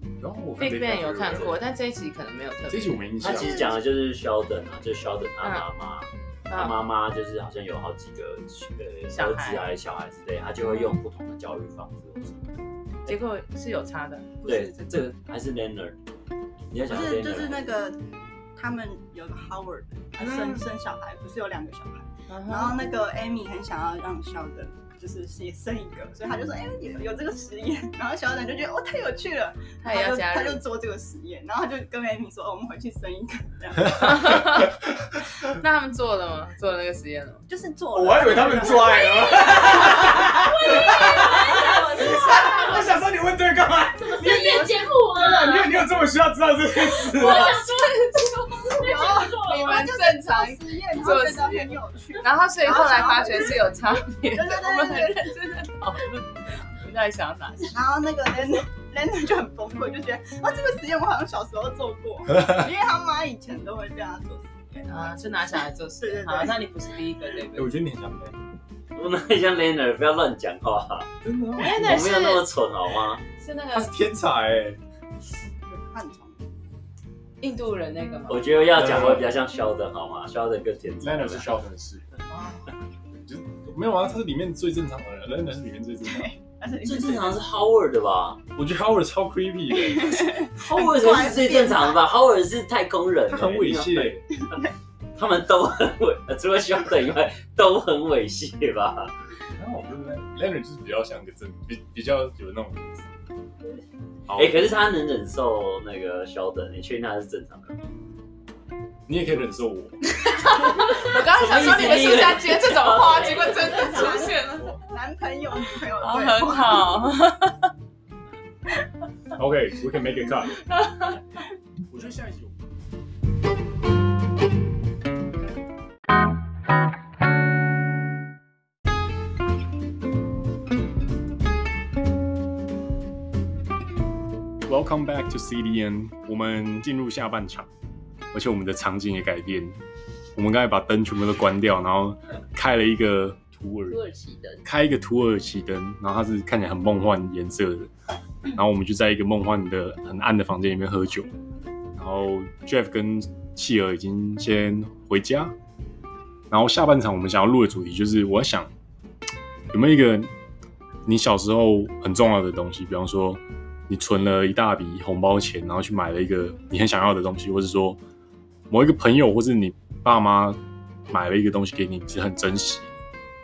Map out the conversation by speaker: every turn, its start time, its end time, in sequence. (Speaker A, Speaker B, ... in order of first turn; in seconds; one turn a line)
Speaker A: 0.2-1.6
Speaker B: 0.6-3.1
Speaker A: 2.7-3.8
Speaker C: 3.2-12.5
Speaker D: 3.3-3.8
Speaker B: 6.5-6.8
Speaker B: 9.1-9.7
Speaker B: 13.1-15.1
Speaker C: 14.4-16.1
Speaker C: 16.7-17.7
Speaker D: 16.8-18.0
Speaker D: 18.6-34.5
Speaker B: 20.2-20.6
Speaker B: 22.3-22.8
Speaker B: 29.8-30.6
Speaker B: 33.9-34.8
Speaker B: 35.5-37.4
Speaker D: 37.5-40.3
Speaker E: 38.0-47.6
Speaker F: 40.5-43.0
Speaker B: 41.2-42.9
Speaker F: 44.0-45.8
Speaker F: 47.0-49.8
Speaker B: 47.2-57.8
Speaker D: 48.6-55.4
Speaker D: 57.6-66.7
Speaker B: 64.9-67.8
Speaker A: 67.5-68.3
Speaker C: 68.9-71.1
Speaker A: 71.2-72.1
Speaker B: 71.6-72.5
Speaker C: 71.7-73.2
Speaker B: 73.3-73.9
Speaker A: 73.7-74.8
Speaker D: 75.7-76.4
Speaker B: 77.4-78.7
Speaker C: 78.3-81.5
Speaker A: 78.7-79.3
Speaker A: 81.0-82.1
Speaker B: 82.3-82.6
Speaker A: 83.2-86.3
Speaker D: 86.0-87.4
Speaker C: 86.8-88.4
Speaker A: 88.6-90.4
Speaker D: 89.7-92.0
Speaker C: 90.6-94.6
Speaker A: 93.3-94.2
Speaker C: 95.2-99.1
Speaker A: 99.6-103.0
Speaker A: 104.3-104.7
Speaker C: 104.3-107.8
Speaker A: 109.1-110.0
Speaker B: 110.2-114.8
Speaker C: 110.8-113.2
Speaker F: 113.0-114.2
Speaker D: 113.2-117.0
Speaker B: 116.0-117.7
Speaker A: 119.3-120.7
Speaker B: 120.7-121.2
Speaker A: 121.9-122.6
Speaker A: 134.7-137.7
Speaker A: 138.3-139.8
Speaker A: 140.3-144.0
Speaker F: 143.9-144.6
Speaker A: 144.7-147.9
Speaker A: 148.5-151.3
Speaker A: 151.9-155.5
Speaker A: 156.5-158.7
Speaker A: 159.7-160.3
Speaker A: 161.1-168.0
Speaker A: 168.7-172.9